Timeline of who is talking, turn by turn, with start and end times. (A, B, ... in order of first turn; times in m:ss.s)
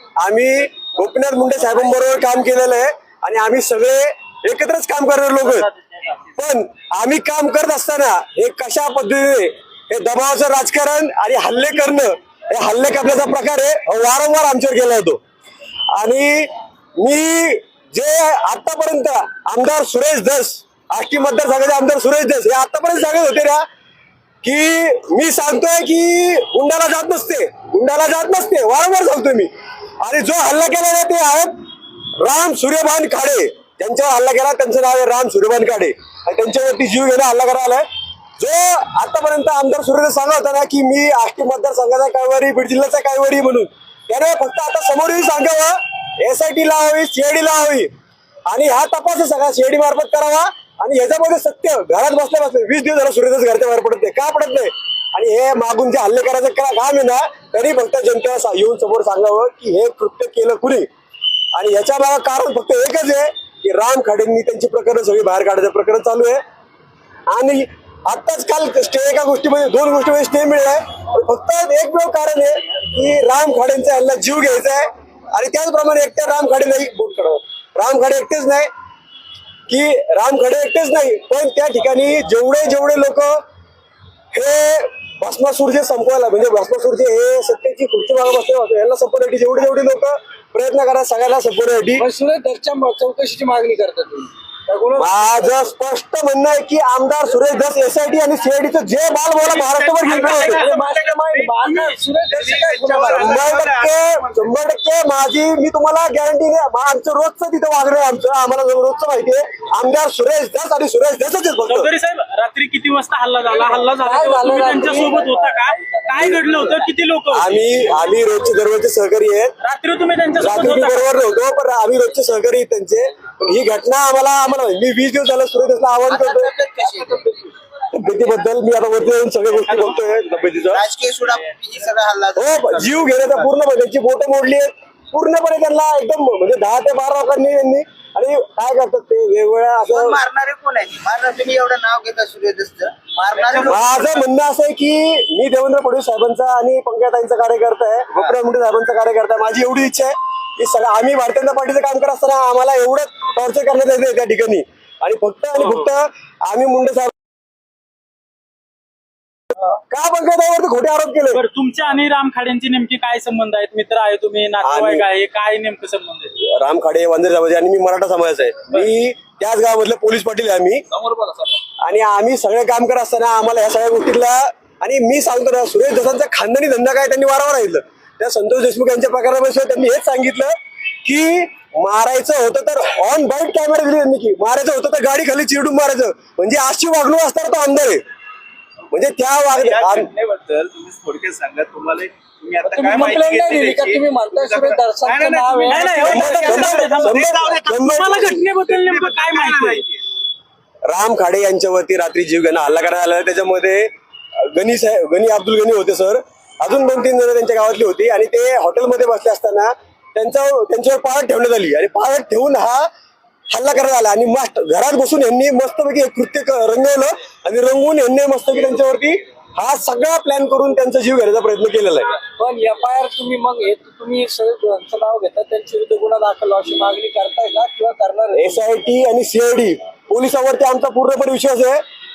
0:00.2-0:05.7 A
0:05.5-0:06.2 B
0:06.4-0:15.2 A
0:16.0-0:23.6 A
0:24.4-0:29.5 A
0:30.0-0:31.6 A
0:32.2-0:37.9 A
0:38.4-0:47.9 A
0:48.5-1:00.9 A
1:01.5-1:06.4 A
1:07.3-1:18.7 A
1:19.7-1:23.4 A
1:24.3-1:32.1 A
1:32.0-1:35.6 C
1:35.0-1:40.6 A
1:39.6-1:44.5 D
1:40.0-1:43.6 C
1:43.2-1:51.9 A
1:51.7-1:57.7 B
1:53.7-1:56.9 C
1:57.3-1:59.5 A
1:59.6-2:01.1 B
2:00.4-2:06.5 A
2:06.1-2:07.5 E
2:07.8-2:10.8 A
2:10.7-2:13.5 E
2:12.4-2:20.2 A
2:19.9-2:24.2 E
2:23.4-2:23.7 D
2:23.6-2:37.1 A
2:39.9-2:41.4 A
2:41.3-2:46.3 B
2:44.6-2:45.1 A
2:46.4-2:50.8 A
2:51.0-2:51.6 D
2:51.8-3:00.5 A
3:01.0-3:08.0 A
3:08.9-3:10.1 A
3:09.6-3:17.8 D
3:12.6-3:17.1 C
3:15.6-3:19.9 B
3:16.1-3:18.4 A
3:18.7-3:20.0 D
3:20.9-3:32.9 A
3:33.5-3:42.2 A
3:42.3-3:48.6 C
3:48.4-3:51.8 A